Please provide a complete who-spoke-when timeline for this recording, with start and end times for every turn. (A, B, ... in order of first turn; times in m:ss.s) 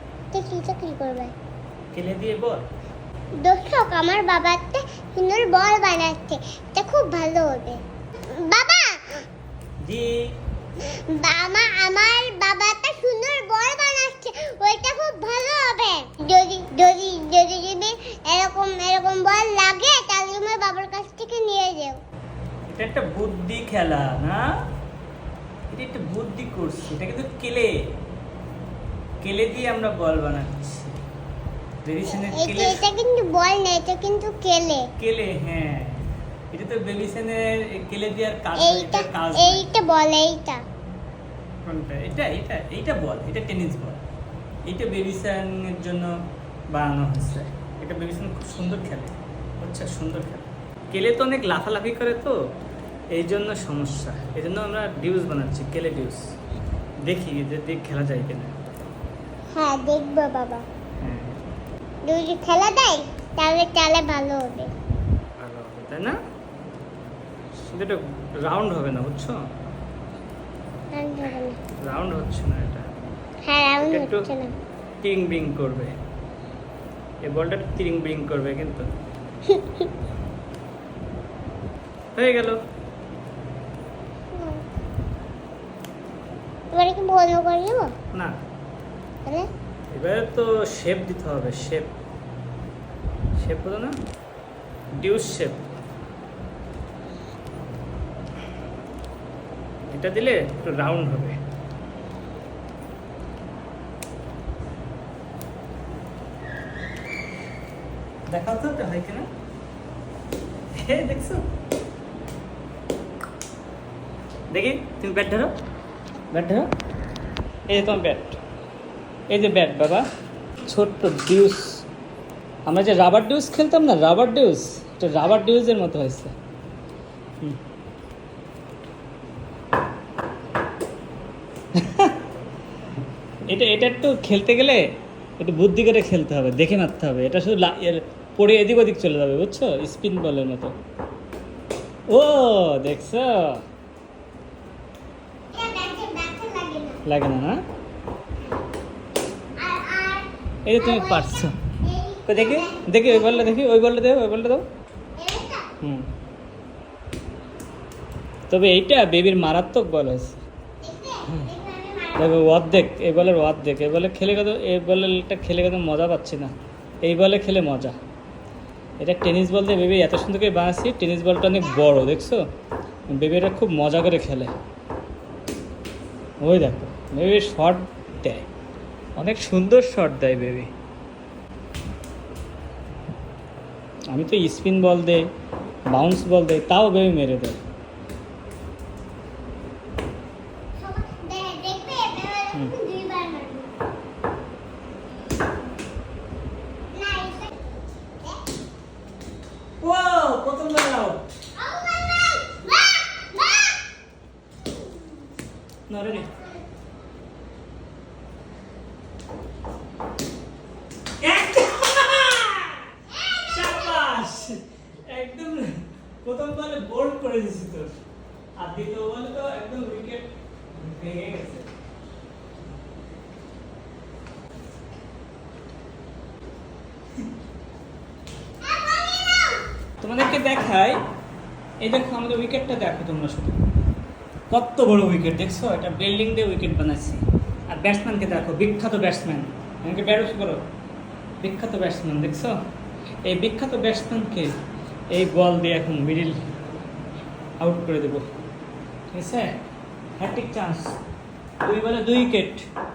0:00.3-0:01.3 A
0:01.9-0:02.6 B
0:03.4-0:09.2 A
0:09.8-0:10.1 B
0:10.8-0:22.0 A
0:22.7-0:24.4 B
0:25.7-0:27.7 B
0:29.2-0:31.0 B
0:31.8-0:32.8 B
0:32.1-0:34.8 A
0:35.0-0:39.6 B
0:38.6-0:40.6 A
0:41.6-0:44.0 B
0:44.7-0:46.1 B
0:46.7-0:52.4 B
0:53.1-0:56.2 B
0:57.0-0:58.7 B
0:59.5-1:00.6 A
1:01.0-1:01.4 B
1:02.0-1:04.7 A
1:05.4-1:06.2 B
1:07.6-1:09.4 B
1:10.9-1:11.6 A
1:11.8-1:12.8 B
1:13.4-1:14.5 A
1:13.8-1:14.3 B
1:15.0-1:15.9 B
1:17.2-1:18.9 B
1:19.5-1:19.9 A
1:22.2-1:22.6 B
1:24.3-1:24.6 A
1:26.7-1:27.9 A
1:29.9-1:31.9 B
1:33.4-1:33.9 B
1:35.0-1:35.6 B
1:39.9-1:41.4 B
1:48.3-1:49.3 B
1:50.7-1:51.5 B
1:54.5-1:55.5 B
1:56.3-1:56.7 B
1:57.7-1:58.4 B
1:59.3-2:00.0 B
2:00.7-2:01.8 B
2:02.7-2:06.3 B
2:11.7-2:12.2 B
2:13.5-2:14.8 B
2:15.4-2:20.7 B
2:22.1-2:23.6 B
2:25.5-2:27.0 A
2:27.0-2:27.6 B
2:29.6-2:33.6 A
2:30.6-2:31.5 B
2:32.3-2:34.6 B
2:35.2-2:35.6 A
2:35.8-2:36.1 B
2:38.5-2:40.4 B
2:40.8-2:42.4 A
2:42.2-2:47.9 B
2:49.0-2:52.4 B
2:53.1-2:54.5 B
2:56.4-2:58.4 B
2:59.2-3:00.7 B
3:04.1-3:05.2 B
3:05.9-3:07.6 B
3:10.8-3:13.7 A
3:16.9-3:18.4 A
3:19.8-3:21.2 B
3:21.6-3:23.8 A
3:25.9-3:26.3 B
3:26.1-3:26.6 A
3:31.2-3:34.6 B
3:33.1-3:34.1 A
3:35.1-3:37.9 B
3:38.6-3:41.7 B
3:48.6-3:49.6 A
3:50.0-3:51.0 B
3:51.8-3:53.6 B
3:54.5-4:00.6 B
4:01.4-4:02.5 B
4:03.2-4:04.5 B
4:05.1-4:06.4 B
4:07.6-4:08.2 B
4:09.1-4:09.5 B
4:10.2-4:10.9 B
4:11.6-4:12.6 B